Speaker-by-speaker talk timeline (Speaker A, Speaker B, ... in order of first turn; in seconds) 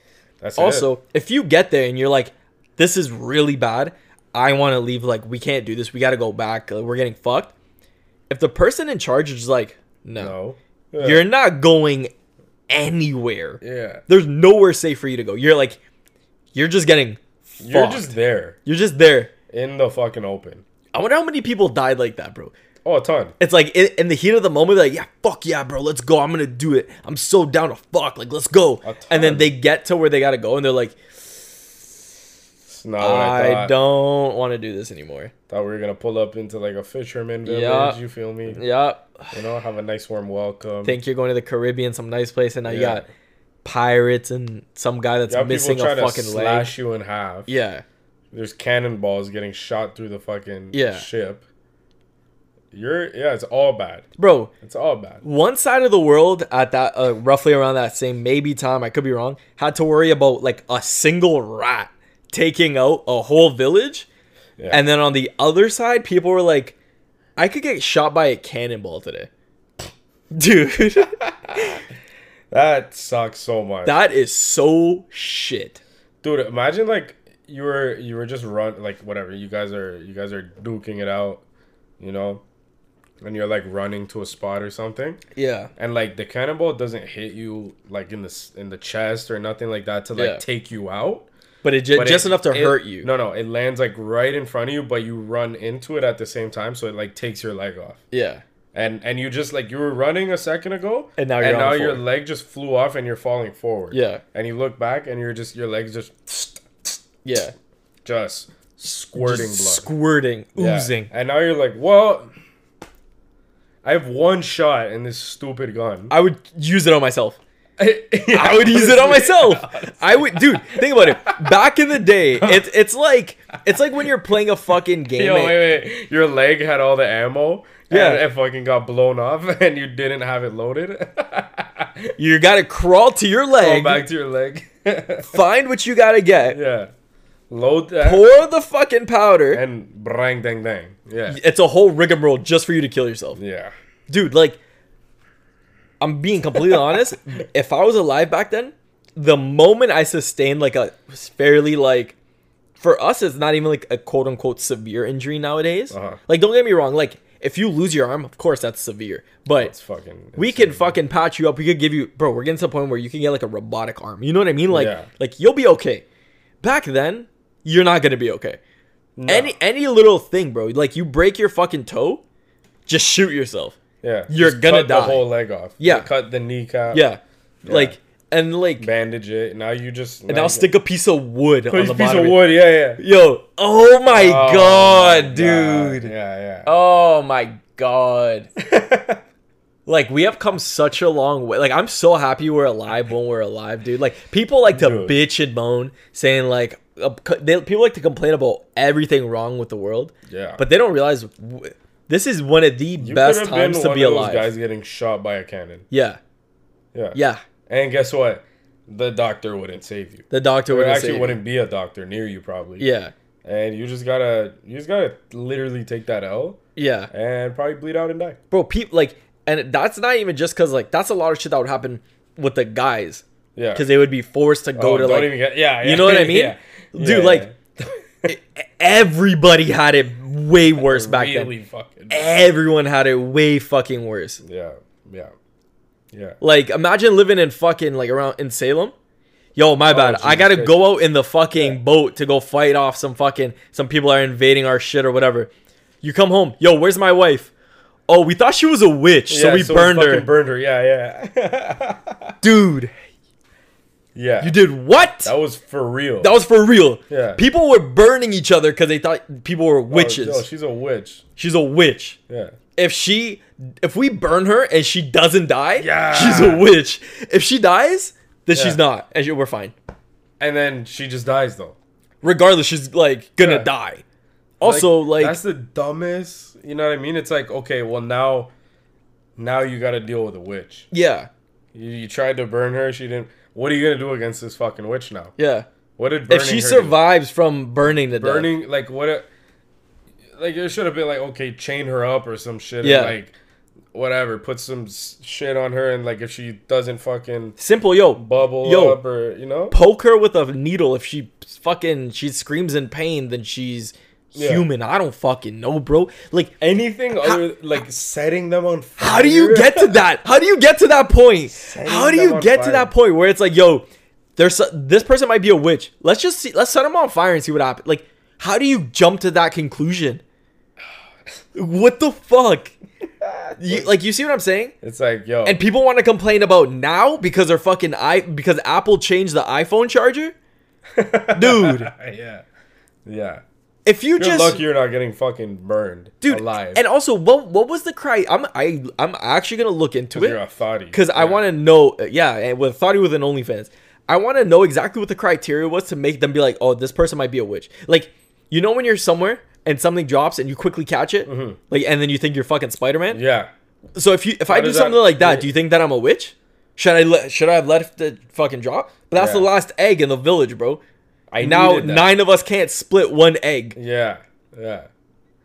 Speaker A: 0.4-0.9, 10.2-11.2, 13.6-14.0, 17.6-18.6, 19.5-20.6, 22.9-23.4, 28.8-29.5, 32.7-33.8, 35.5-38.6, 39.3-41.0, 42.7-43.0, 45.3-47.5, 48.3-51.4, 52.7-54.1, 54.6-55.2, 72.5-74.0, 76.2-81.4, 82.0-82.4, 83.2-85.2, 85.8-91.3, 91.9-98.0, 98.7-107.0, 108.0-109.9, 110.6-112.3, 113.8-116.1, 117.8-121.5, 122.4-122.7, 125.2-132.1, 133.6-135.4, 136.5-136.9, 137.5-138.3, 139.5-141.4, 143.4-143.7, 155.9-156.2, 159.6-161.0, 164.7-165.1, 169.2-169.5, 174.0-177.0, 177.7-177.9, 178.8-180.7, 181.7-183.0, 184.1-186.7, 188.6-189.2, 194.7-195.2, 200.3-200.6, 203.0-205.8, 207.7-212.9, 213.4-216.6, 217.1-218.4, 223.6-223.9, 224.8-228.3, 230.8-232.5, 234.4-235.3, 236.1-236.4, 239.9-240.8, 249.3-252.3, 254.2-254.6, 255.2-256.3, 257.1-257.4, 259.9-261.2, 262.3-262.6, 265.8-266.7, 268.5-268.8, 270.4-271.8, 273.4-273.7, 274.6-278.5, 279.4-280.9, 281.7-285.4, 286.0-287.0, 288.1-289.3, 290.4-293.3, 293.9-297.6, 298.2-299.8, 304.3-304.7, 306.6-310.0, 311.5-312.9, 323.2-323.9, 324.8-325.6, 330.9-332.4, 333.1-333.4, 334.2-336.8, 340.1-341.4, 351.3-351.6, 353.1-353.5, 354.5-355.5, 359.1-359.5, 361.3-362.2, 363.8-364.9
Speaker B: 0.6-7.5, 8.3-10.3, 11.0-12.1, 12.7-15.8, 16.5-18.1, 18.6-19.3, 20.9-22.5, 23.4-31.0, 33.0-35.3, 37.5-38.0, 38.5-39.3, 40.8-43.1, 43.6-46.7, 47.5-47.8, 50.7-51.1, 54.2-54.5, 55.2-64.1, 64.7-66.8, 67.4-69.3, 70.3-71.8, 73.8-75.8, 85.3-85.7, 90.2-90.4, 91.6-93.1, 98.1-98.4, 101.2-102.0, 103.9-104.2, 107.2-107.5, 109.2-111.1, 116.1-117.4, 118.3-125.6, 127.9-128.2, 132.2-134.1, 135.3-136.6, 138.0-139.6, 141.3-143.4, 144.1-144.6, 146.0-152.2, 152.8-159.7, 160.4-166.1, 166.6-168.6, 169.3-172.2, 172.9-173.8, 174.3-175.2, 175.8-176.1, 176.9-178.9, 180.3-182.4, 183.0-186.1, 186.7-188.5, 189.9-204.5, 205.9-206.2, 207.1-207.4, 210.3-211.4, 212.8-213.1, 216.8-217.1, 218.5-223.2, 223.8-227.5, 228.3-231.5, 232.1-234.4, 236.4-238.9, 239.6-245.5, 246.0-247.5, 248.1-250.3, 252.4-252.9, 254.4-255.3, 256.2-260.4, 261.4-262.2, 262.8-269.7, 272.2-274.0, 274.6-275.4, 280.9-281.3, 285.4-285.7, 286.3-288.5, 292.8-293.2, 297.6-299.0, 299.7-306.6, 309.0-313.9, 314.4-320.2, 321.6-322.8, 323.6-324.7, 325.4-330.3, 331.4-331.9, 333.9-334.6, 336.2-340.4, 340.9-353.2, 354.0-360.8, 361.4-363.8